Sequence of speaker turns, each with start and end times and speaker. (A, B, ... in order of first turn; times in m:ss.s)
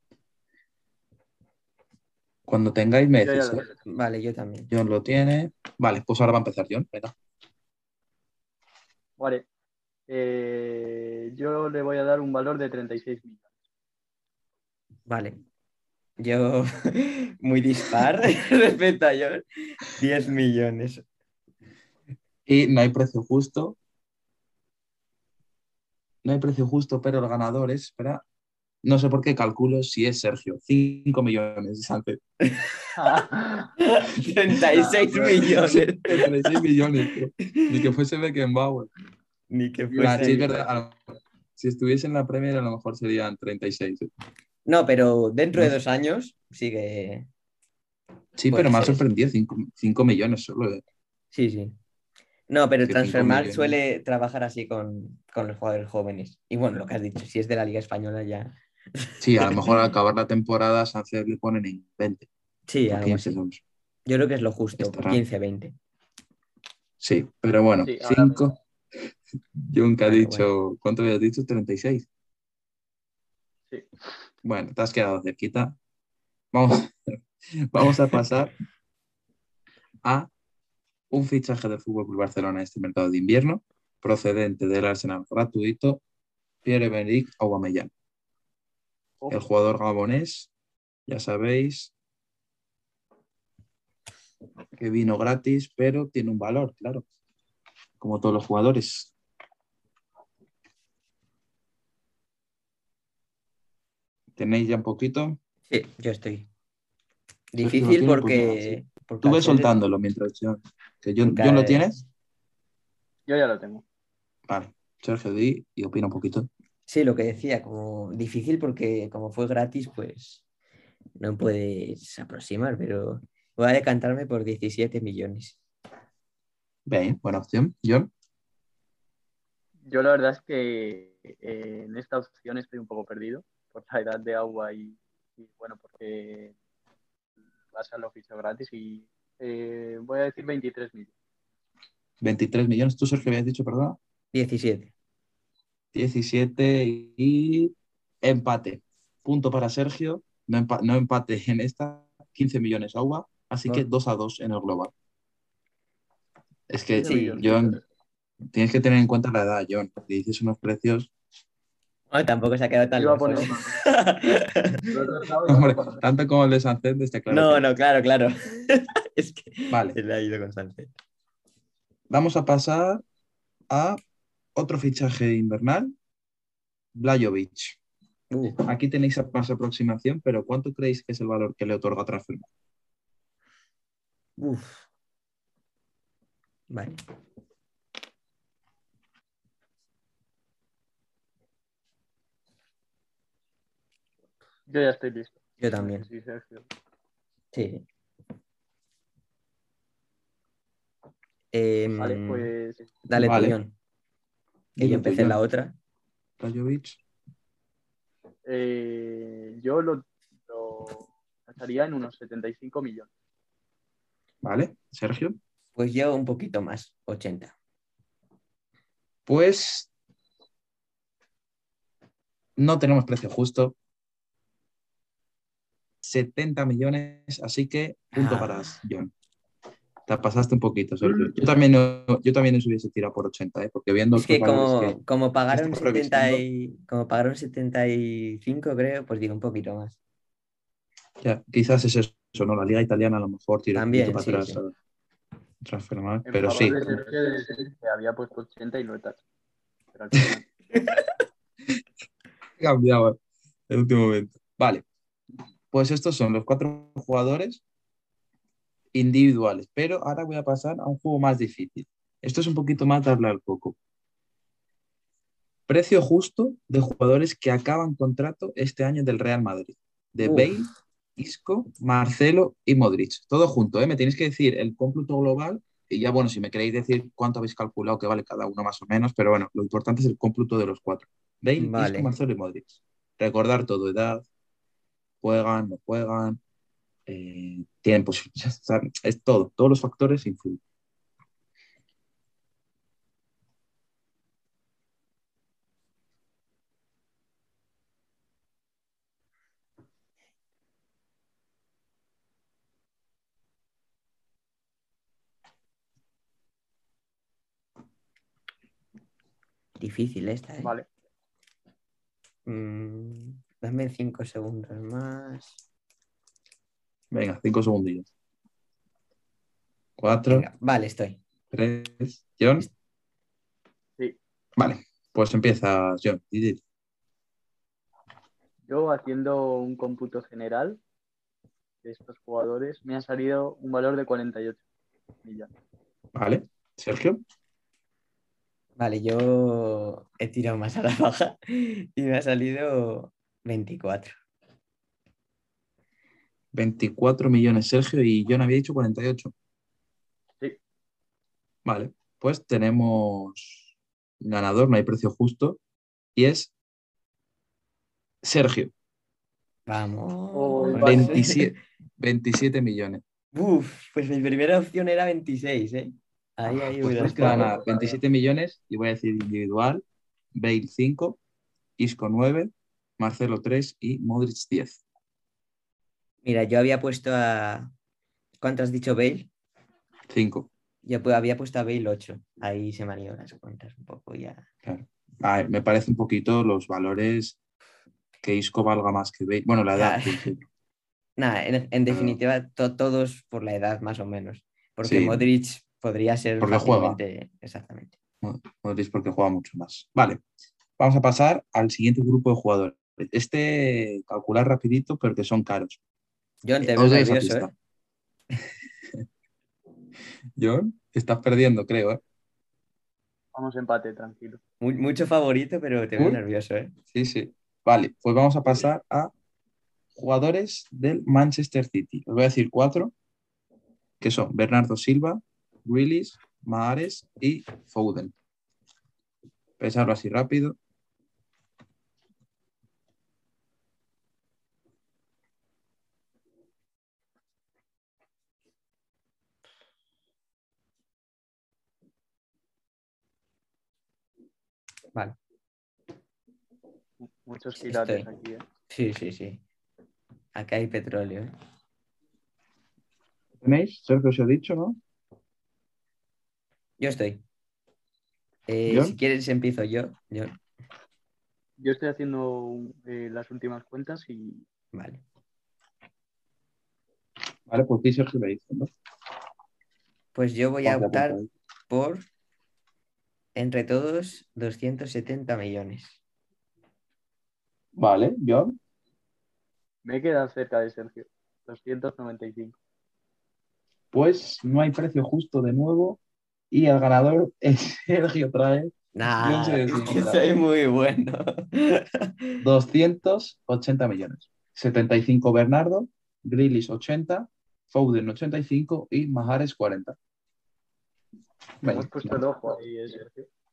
0:02.5-0:03.6 A
0:03.2-0:03.7 B
0:03.8-0:04.7 C
0:04.7-0:07.1 A
0:09.2-0:09.4 B
0:10.1-0:13.5 B
0:15.1-0:15.4 C
0:16.2-0:21.0 C
0:22.4-0:23.8 A
0:26.2-0:28.2 A
0:28.8-0:32.2 A
0:32.4-0:32.9 C
0:33.0-0:33.7 B
0:33.8-0:37.8 C
0:34.7-0:38.9 A
0:34.9-0:35.2 B
0:39.5-0:40.7 C
0:39.9-0:40.4 B
0:39.9-0:44.1 A
0:44.6-0:47.3 C
0:48.4-0:50.8 A
0:48.5-0:49.0 C
0:51.3-0:51.8 C
0:52.5-0:59.8 C
0:52.8-0:53.8 A
0:59.2-1:02.3 A
1:02.7-1:03.4 C
1:02.9-1:03.6 A
1:04.0-1:05.7 C
1:04.8-1:05.2 A
1:07.0-1:08.5 A
1:07.8-1:08.5 B
1:09.6-1:12.1 A
1:10.0-1:10.5 C
1:14.4-1:15.8 A
1:16.5-1:18.5 A
1:20.0-1:20.3 A
1:21.1-1:26.0 A
1:26.6-1:27.9 A
1:29.3-1:30.5 A
1:31.1-1:31.9 A
1:34.8-1:37.0 A
1:38.0-1:39.1 A
1:44.4-1:45.4 A
1:45.7-1:46.5 C
1:47.5-1:49.7 C
1:47.6-1:52.0 A
1:51.2-1:51.9 C
1:53.3-1:53.8 B
1:54.5-1:56.5 A
1:56.9-2:00.4 C
2:01.2-2:05.6 C
2:06.8-2:08.1 A
2:09.9-2:16.5 B
2:17.7-2:21.1 B
2:22.2-2:24.0 A
2:24.3-2:24.9 C
2:25.9-2:34.9 A
2:36.7-2:37.8 A
2:37.0-2:37.8 B
2:38.5-2:41.1 A
2:42.1-2:44.9 C
2:43.0-2:43.9 B
2:44.9-2:46.0 B
2:45.4-2:47.6 A
2:47.3-2:50.9 C
2:49.7-2:50.0 A
2:52.1-2:53.0 A
2:53.7-2:54.0 A
2:54.5-2:55.9 A
2:56.9-2:57.8 A
2:58.3-2:58.6 C
2:58.6-3:02.5 A
3:04.4-3:04.9 C
3:06.7-3:07.0 C
3:14.7-3:16.7 B
3:15.6-3:16.1 C
3:17.5-3:17.8 C
3:21.5-3:22.5 C
3:22.0-3:22.9 B
3:23.0-3:23.7 C
3:23.2-3:23.6 A
3:24.8-3:25.4 A
3:24.8-3:25.7 C
3:26.4-3:27.0 A
3:28.4-3:33.1 B
3:34.4-3:35.4 A
3:35.7-3:37.5 C
3:39.3-3:39.9 A
3:42.6-3:43.7 A
3:46.0-3:49.1 A
3:48.1-3:48.8 C
3:50.1-3:55.0 A
3:54.1-4:00.0 C
3:55.5-3:56.4 A
4:01.2-4:04.7 A
4:03.7-4:04.6 C
4:05.6-4:06.9 A
4:06.2-4:09.2 B
4:09.9-4:10.4 B
4:12.6-4:13.2 A
4:13.7-4:14.8 A
4:15.7-4:17.6 A
4:18.9-4:23.8 A
4:25.7-4:44.2 A
4:30.2-4:30.5 C
4:41.6-4:42.1 C
4:45.2-4:46.4 A
4:47.1-4:50.6 A
5:09.8-5:10.7 C
5:12.4-5:15.6 C
5:17.1-5:18.1 A
5:20.0-5:20.5 A
5:20.3-5:21.2 C
5:21.5-5:22.7 A
5:24.6-5:26.6 A
5:28.7-5:30.8 B
5:31.8-5:34.6 B
5:35.2-5:35.5 B
5:36.1-5:37.2 A
5:38.8-5:44.1 C
5:46.5-5:49.3 A
5:51.6-5:55.6 A
5:56.1-5:56.5 A
5:58.2-5:58.7 A
5:59.7-6:01.5 C
6:00.3-6:01.2 B
6:00.8-6:03.0 A
6:03.3-6:07.6 C
6:06.8-6:09.8 A
6:07.4-6:07.8 B
6:10.3-6:11.2 A
6:11.8-6:14.8 A
6:16.2-6:17.7 C
6:18.4-6:19.3 C
6:20.1-6:20.5 A
6:20.8-6:24.5 C
6:24.6-6:27.4 A
6:28.2-6:30.4 A
6:29.7-6:30.3 C
6:31.2-6:38.0 C
6:31.9-6:32.2 A
6:34.8-6:35.2 A
6:36.4-6:37.0 A
6:38.2-6:40.2 A
6:40.8-6:45.8 A
6:46.4-6:47.5 C
6:46.6-6:47.5 A
6:50.4-6:52.0 A
6:53.3-6:54.4 B
6:54.6-6:56.7 C
6:56.9-6:59.1 A
6:59.9-7:02.9 A
7:04.0-7:08.1 A
7:09.6-7:10.6 A
7:27.0-7:28.4 B
7:27.6-7:28.1 C
7:28.7-7:29.4 C
7:30.3-7:31.3 C
7:33.4-7:34.8 A
7:36.8-7:37.2 C
7:38.5-7:40.4 C
7:38.7-7:39.0 A
7:41.6-7:44.4 B
7:44.7-7:45.0 C
7:47.5-7:48.7 A
7:50.1-7:52.0 C
7:50.6-7:51.3 A
7:53.3-7:56.0 C
7:57.8-7:58.6 A
7:59.8-8:02.6 B
8:03.9-8:06.0 A
8:06.5-8:10.2 A
8:08.9-8:12.4 C
8:12.4-8:20.0 A
8:21.6-8:22.2 A
8:21.6-8:23.3 B